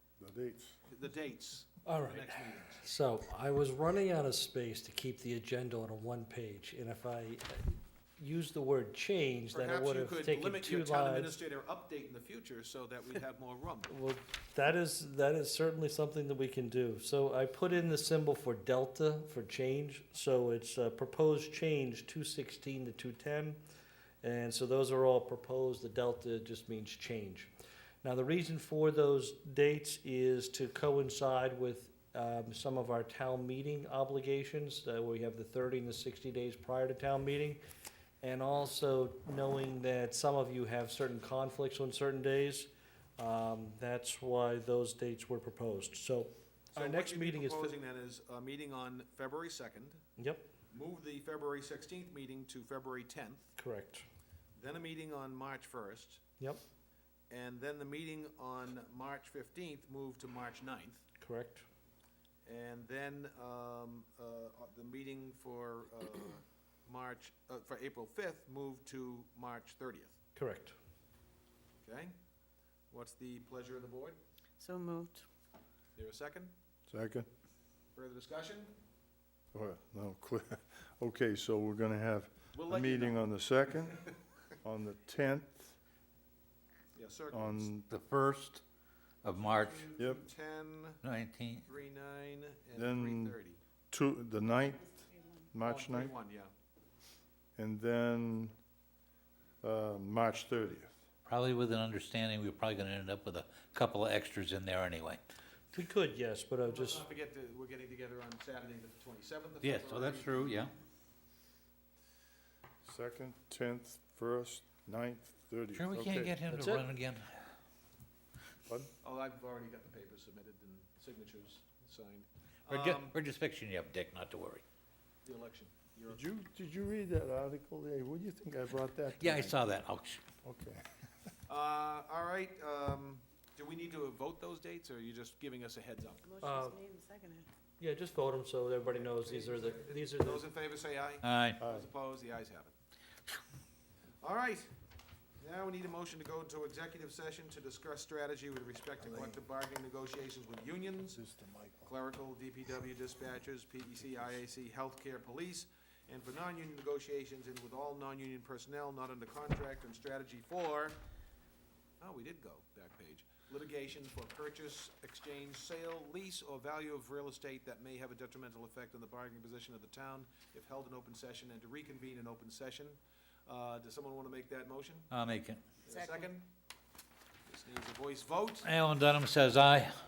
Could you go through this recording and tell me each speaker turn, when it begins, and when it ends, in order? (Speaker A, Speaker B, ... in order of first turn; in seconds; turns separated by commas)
Speaker A: 0.2-0.8, Speaker B: 0.9-2.9, Speaker C: 1.9-2.3, Speaker C: 2.8-11.4, Speaker B: 9.5-13.9, Speaker C: 13.9-23.6, Speaker C: 24.2-27.5, Speaker C: 28.0-37.6, Speaker C: 38.2-47.7, Speaker B: 46.8-50.0, Speaker C: 50.2-50.5, Speaker B: 50.7-53.6, Speaker C: 53.6-54.0, Speaker B: 54.6-56.2, Speaker B: 57.3-61.0, Speaker C: 61.2-61.7, Speaker B: 62.5-70.2, Speaker C: 70.4-70.8, Speaker B: 71.8-72.1, Speaker B: 72.9-74.2, Speaker D: 74.6-75.2, Speaker B: 76.0-76.5, Speaker A: 76.9-77.3, Speaker B: 78.0-78.8, Speaker A: 79.5-85.8, Speaker B: 82.5-83.3, Speaker B: 87.0-87.7, Speaker A: 87.3-87.9, Speaker E: 87.9-88.6, Speaker E: 89.2-89.9, Speaker B: 89.3-91.0, Speaker A: 90.0-90.2, Speaker E: 91.0-91.7, Speaker B: 91.6-93.6, Speaker A: 92.7-93.4, Speaker A: 93.9-95.0, Speaker D: 94.9-95.5, Speaker A: 95.5-96.1, Speaker B: 95.6-96.5, Speaker A: 97.6-98.5, Speaker A: 99.6-101.0, Speaker E: 101.3-105.2, Speaker C: 105.7-107.1, Speaker B: 106.7-110.6, Speaker E: 109.6-110.7, Speaker A: 112.8-116.4, Speaker E: 115.7-117.3, Speaker C: 116.5-116.9, Speaker A: 118.7-118.9, Speaker B: 119.0-123.2, Speaker E: 122.7-124.6, Speaker B: 125.2-126.2, Speaker A: 126.1-129.6, Speaker E: 129.2-130.2, Speaker A: 130.4-130.8, Speaker B: 131.5-136.3, Speaker D: 136.2-137.5, Speaker C: 136.4-136.8, Speaker C: 137.8-140.5, Speaker B: 138.8-142.8, Speaker E: 141.2-141.6, Speaker A: 141.6-141.9, Speaker B: 144.2-144.7, Speaker B: 145.4-151.2, Speaker A: 149.0-149.4, Speaker A: 151.2-151.9, Speaker B: 151.9-161.0, Speaker B: 162.0-175.1, Speaker E: 175.1-175.6, Speaker B: 175.8-176.5, Speaker D: 176.0-176.3, Speaker B: 177.5-178.7, Speaker E: 178.6-179.9